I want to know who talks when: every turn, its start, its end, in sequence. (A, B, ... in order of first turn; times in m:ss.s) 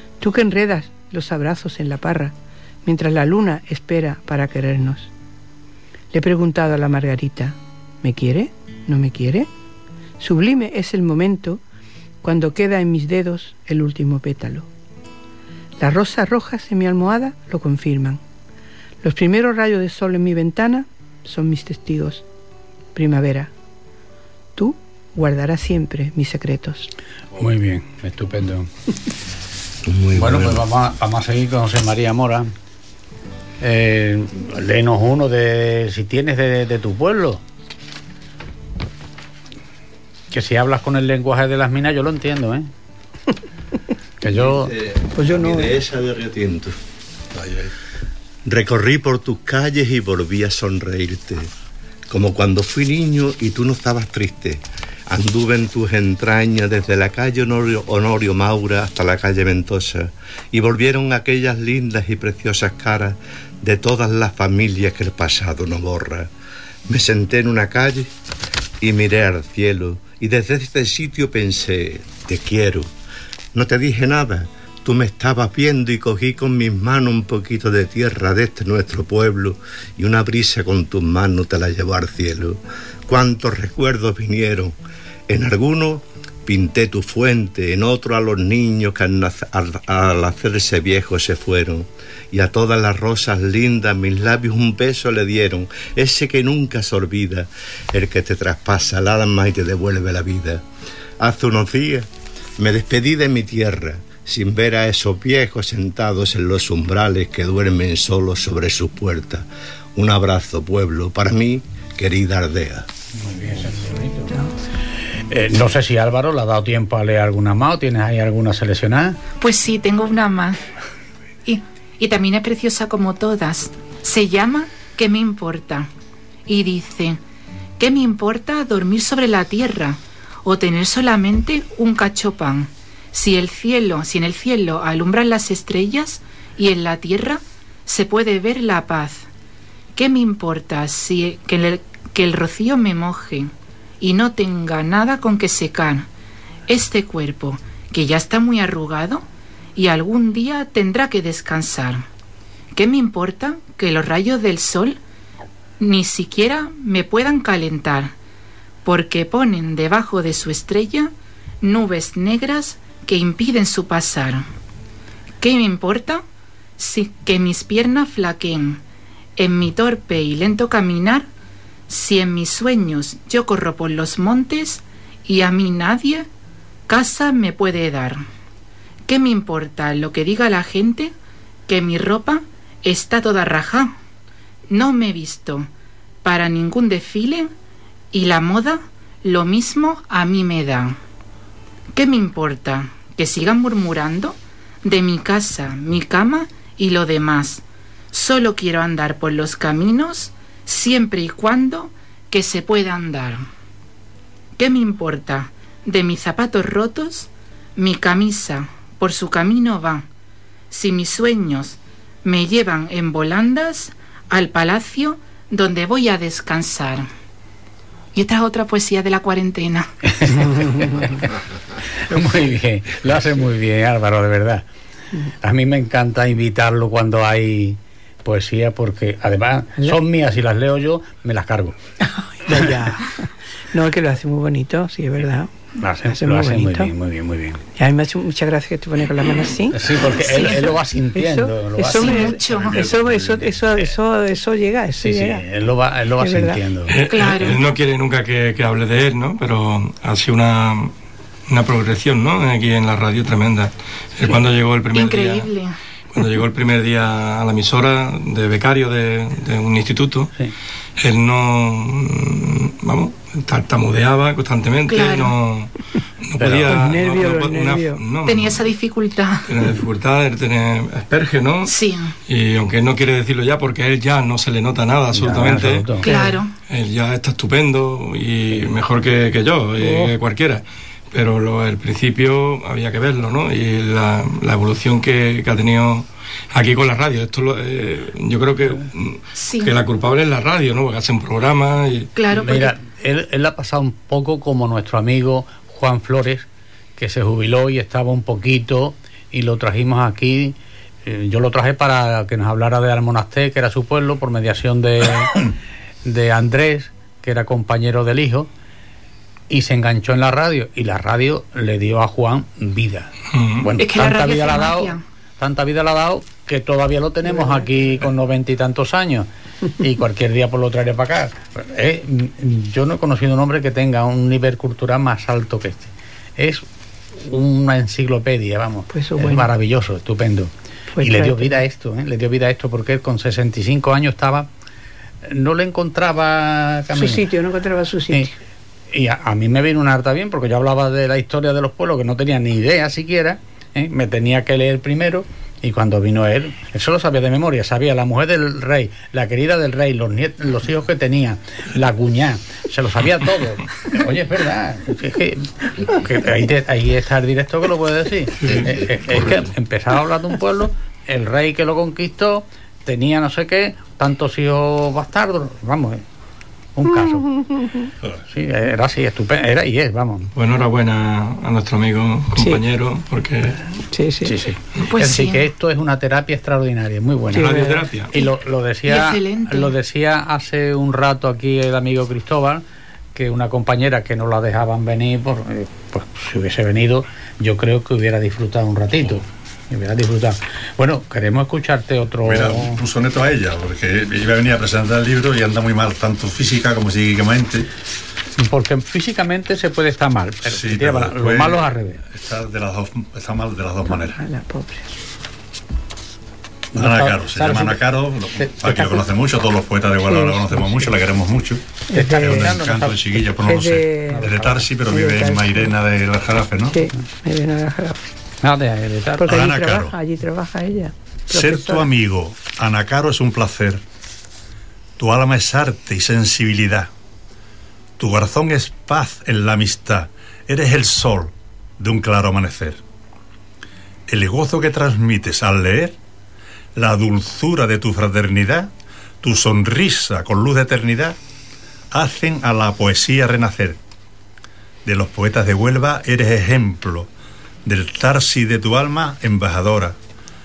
0:00.2-0:02.3 A
0:02.8-0:05.1 A
0:06.1-0:09.5 A
0:10.2-0:11.6 A
0:12.2-0:14.7 A
0:15.8-0:18.2 A
0:19.0-0:22.2 A
0:23.0-0:23.5 A
0:24.6-0:26.9 A
0:27.4-0:28.7 B
0:29.9-0:30.6 C
0:30.1-0:32.5 B
0:33.6-0:37.4 B
0:40.3-0:42.7 B
0:44.2-0:44.7 B
0:44.3-0:46.8 C
0:45.2-0:45.8 A
0:48.4-0:51.5 C
0:52.1-1:06.3 C
1:06.9-1:08.1 C
1:08.8-1:12.9 C
1:13.5-1:24.8 C
1:25.3-1:40.6 C
1:41.2-1:42.1 C
1:42.6-1:52.9 C
1:53.2-1:54.4 B
1:55.3-1:59.2 B
1:59.4-2:00.6 D
2:01.4-2:05.9 D
2:06.5-2:07.2 D
2:07.8-2:19.3 D
2:20.0-2:26.1 D
2:26.7-2:32.1 D
2:32.7-2:35.0 D
2:35.8-2:38.2 D
2:38.8-2:44.4 D
2:45.4-2:46.2 D
2:46.8-2:48.8 D
2:49.4-2:51.3 D
2:51.9-2:56.3 D
2:56.9-2:58.2 D
2:59.1-3:01.1 D
3:01.7-3:04.0 D
3:04.7-3:05.7 D
3:06.2-3:07.5 D
3:08.1-3:11.0 D
3:11.9-3:23.4 D
3:24.6-3:30.1 D
3:30.7-3:37.1 D
3:38.1-3:39.9 D
3:40.2-3:41.3 B
3:42.0-3:44.7 B
3:45.4-3:51.8 B
3:52.0-3:55.5 A
3:55.8-3:57.6 B
3:56.1-3:56.9 A
3:57.8-4:05.4 A
3:59.7-4:02.3 B
4:00.2-4:00.6 D
4:01.9-4:02.8 D
4:02.3-4:04.0 E
4:05.0-4:07.0 B
4:06.2-4:06.6 A
4:06.9-4:10.9 F
4:07.0-4:07.6 D
4:11.5-4:15.5 F
4:14.9-4:15.7 D
4:16.1-4:20.3 F
4:21.0-4:28.7 F
4:24.9-4:25.3 D
4:26.4-4:26.8 B
4:26.6-4:28.0 A
4:28.2-4:29.7 D
4:29.5-4:31.7 F
4:31.7-4:32.2 D
4:32.3-4:52.1 F
4:35.1-4:36.1 B
4:36.0-4:36.5 D
4:49.3-4:49.8 D
4:52.2-4:52.8 D
4:52.4-4:56.5 B
4:57.0-5:05.5 B
5:06.0-5:08.5 B
5:09.5-5:34.5 B
5:13.3-5:13.7 F
5:13.8-5:15.0 D
5:17.4-5:17.6 A
5:28.9-5:29.5 A
5:30.9-5:31.6 A
5:35.2-5:37.2 B
5:36.9-5:38.4 A
5:38.9-6:06.0 B
5:58.4-5:58.8 F
6:06.8-6:07.4 B
6:08.3-6:10.3 B
6:10.4-6:13.7 F
6:12.4-6:12.6 A
6:13.9-6:14.4 A
6:14.2-6:22.6 B
6:14.8-6:15.5 D
6:17.3-6:18.0 A
6:17.4-6:18.1 F
6:18.8-6:19.7 D
6:23.2-6:32.8 B
6:32.2-6:37.7 E
6:38.4-6:42.0 B
6:40.5-6:44.2 E
6:43.9-6:44.9 A
6:46.7-6:47.8 B
6:46.8-6:56.8 E
6:48.4-6:48.8 B
6:50.1-6:50.8 A
6:51.9-6:52.6 A
6:51.9-6:53.2 B
6:53.4-6:54.3 A
6:54.1-6:54.6 B
6:54.9-6:55.7 A
6:56.7-6:58.0 A
6:58.4-6:59.3 B
6:59.2-7:01.9 A
6:59.3-7:00.0 E
7:01.3-7:03.8 E
7:05.0-7:06.9 E
7:08.0-7:12.8 E
7:14.1-7:16.0 E
7:16.8-7:18.7 E
7:19.2-7:21.2 E
7:21.9-7:23.8 E
7:24.8-7:27.1 E
7:27.6-7:30.0 E